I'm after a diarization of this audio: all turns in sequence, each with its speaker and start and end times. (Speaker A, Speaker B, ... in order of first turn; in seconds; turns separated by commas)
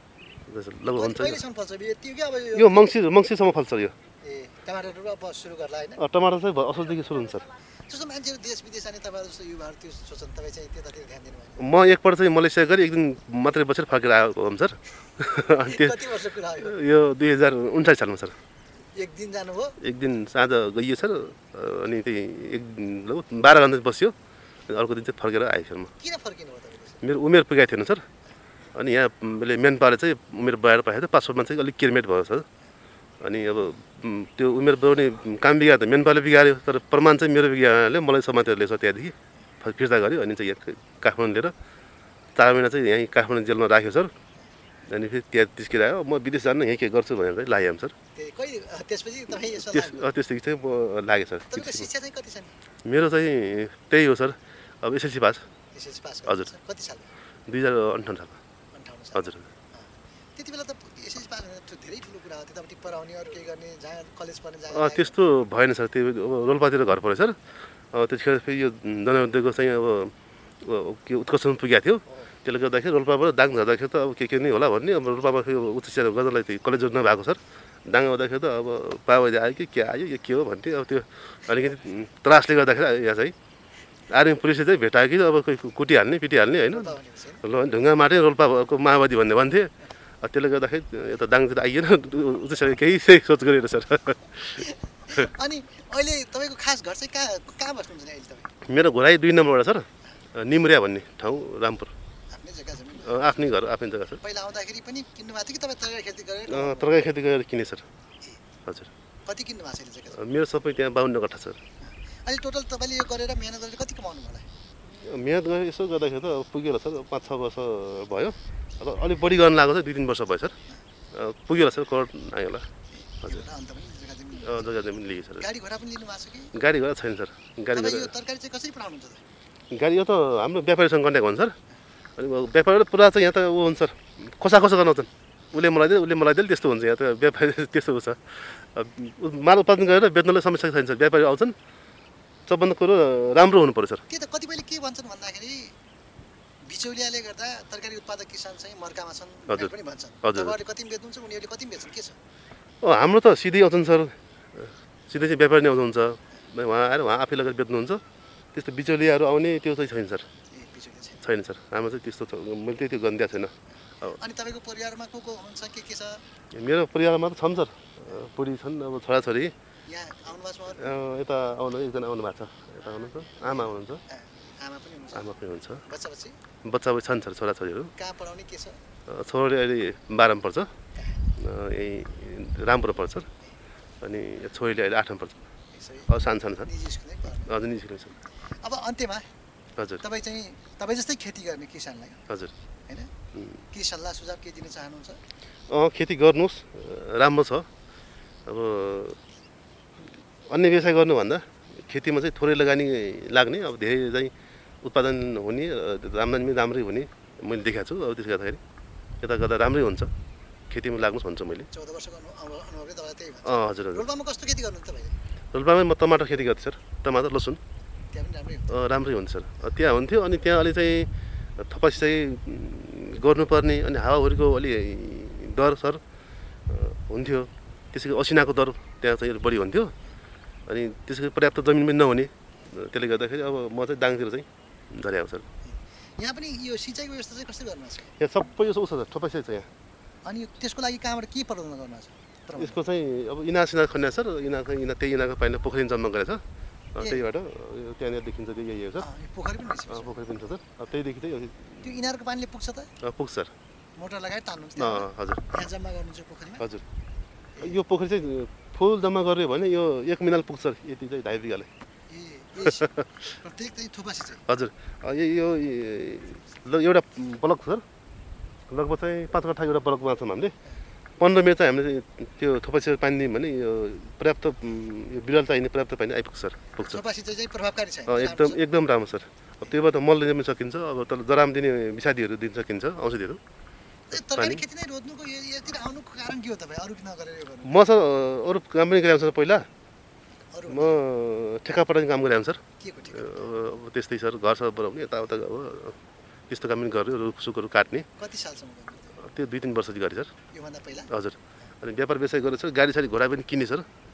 Speaker A: 0.5-1.4, Speaker B: 0.9-2.9, Speaker A: 2.5-3.9, Speaker B: 4.2-6.0, Speaker A: 6.0-7.5, Speaker B: 7.9-11.6, Speaker A: 11.6-16.0, Speaker B: 15.5-16.8, Speaker A: 16.6-18.4, Speaker B: 18.9-19.8, Speaker A: 19.8-24.1, Speaker A: 24.7-25.9, Speaker B: 26.0-27.0, Speaker A: 27.0-28.1, Speaker A: 28.7-32.5, Speaker A: 33.2-41.5, Speaker A: 42.4-44.1, Speaker A: 44.9-47.9, Speaker B: 48.2-50.1, Speaker A: 49.4-51.9, Speaker B: 51.5-52.5, Speaker A: 52.9-55.4, Speaker B: 55.7-57.1, Speaker A: 57.5-58.4, Speaker B: 58.7-65.1, Speaker A: 59.1-59.5, Speaker A: 64.7-67.4, Speaker A: 67.9-83.3, Speaker A: 84.1-89.7, Speaker B: 86.7-87.4, Speaker A: 90.2-95.2, Speaker B: 94.6-98.5, Speaker A: 98.6-101.9, Speaker B: 102.3-103.6, Speaker A: 103.0-104.2, Speaker B: 104.2-107.1, Speaker A: 106.5-107.8, Speaker B: 109.3-110.2, Speaker A: 110.1-111.6, Speaker B: 111.8-114.5, Speaker A: 115.0-120.5, Speaker A: 121.1-122.7, Speaker B: 123.0-124.9, Speaker A: 124.4-125.5, Speaker B: 125.4-126.6, Speaker A: 126.5-128.1, Speaker B: 127.7-129.2, Speaker A: 129.7-131.6, Speaker A: 132.2-138.2, Speaker A: 138.7-141.6, Speaker A: 142.5-144.0, Speaker B: 144.1-145.8, Speaker B: 146.7-152.2, Speaker A: 150.2-150.5, Speaker A: 152.8-158.0, Speaker A: 158.5-160.3, Speaker B: 160.5-161.2, Speaker A: 161.2-163.5, Speaker B: 164.0-166.2, Speaker A: 166.5-169.5, Speaker B: 169.9-171.0, Speaker A: 170.8-174.0, Speaker B: 173.4-175.3, Speaker A: 175.1-175.8, Speaker B: 175.8-176.4, Speaker A: 176.6-177.9, Speaker B: 178.0-178.8, Speaker A: 179.1-180.7, Speaker A: 181.4-183.3, Speaker A: 184.0-185.5, Speaker B: 185.7-187.7, Speaker A: 186.1-186.7, Speaker A: 187.5-188.2, Speaker B: 188.6-189.3, Speaker A: 189.8-190.0, Speaker B: 190.0-192.2, Speaker B: 193.7-195.2, Speaker A: 195.7-197.7, Speaker A: 198.5-199.2, Speaker A: 200.5-208.6, Speaker A: 209.2-210.1, Speaker A: 210.7-211.7, Speaker B: 211.7-215.2, Speaker A: 213.4-214.1, Speaker A: 215.5-217.6, Speaker B: 218.1-218.8, Speaker A: 218.7-226.0, Speaker A: 226.7-229.9, Speaker A: 230.7-235.4, Speaker B: 236.2-238.1, Speaker A: 238.2-239.7, Speaker B: 240.2-242.8, Speaker A: 242.6-246.4, Speaker A: 246.9-249.1, Speaker B: 247.0-247.3, Speaker B: 249.0-250.2, Speaker A: 249.9-251.9, Speaker B: 251.8-252.9, Speaker A: 253.0-253.5, Speaker B: 254.0-256.7, Speaker A: 254.8-255.4, Speaker B: 257.6-257.8, Speaker A: 257.6-261.7, Speaker B: 262.1-264.4, Speaker A: 264.5-267.8, Speaker A: 268.7-270.6, Speaker A: 271.2-277.0, Speaker B: 276.8-278.6, Speaker A: 278.1-283.4, Speaker B: 284.1-287.8, Speaker A: 284.1-284.6, Speaker A: 287.7-289.7, Speaker B: 290.5-291.0, Speaker A: 290.7-292.6, Speaker B: 292.8-293.5, Speaker A: 293.1-296.0, Speaker A: 296.5-298.1, Speaker B: 298.2-299.2, Speaker A: 299.2-300.3, Speaker B: 300.5-301.1, Speaker A: 301.1-303.9